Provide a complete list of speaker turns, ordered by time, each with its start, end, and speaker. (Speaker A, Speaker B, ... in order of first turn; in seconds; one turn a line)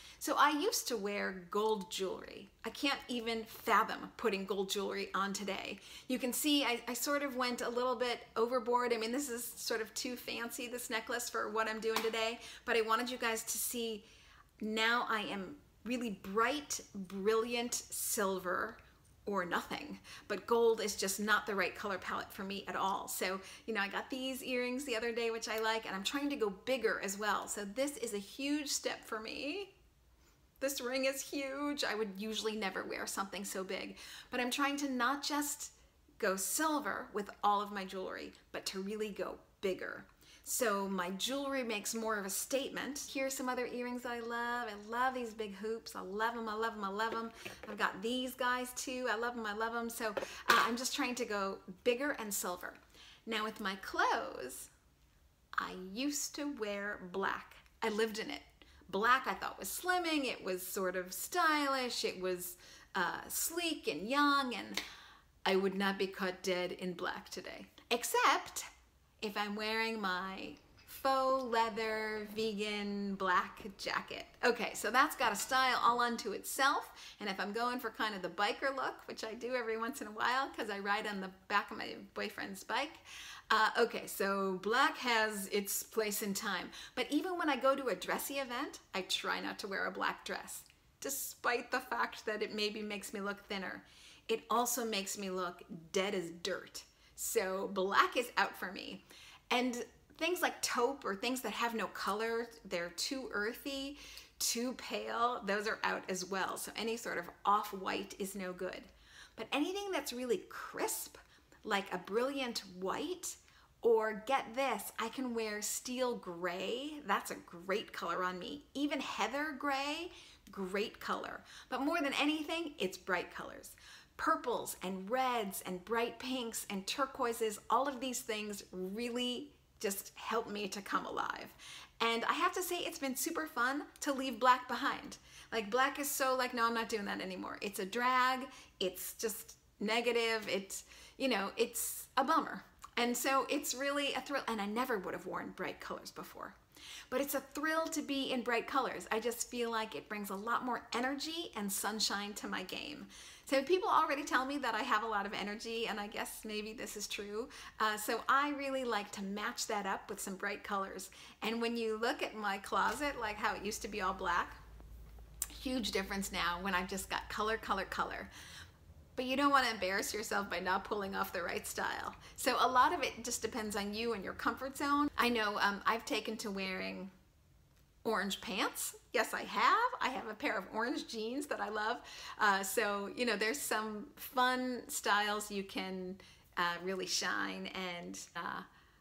Speaker A: 0.2-14.0
Speaker A: 14.6-29.7
Speaker A: 30.6-54.7
Speaker A: 55.6-64.8
Speaker A: 65.4-68.7
Speaker A: 69.2-146.6
Speaker A: 147.1-164.6
Speaker A: 165.5-168.3
Speaker A: 169.2-177.1
Speaker A: 178.0-188.7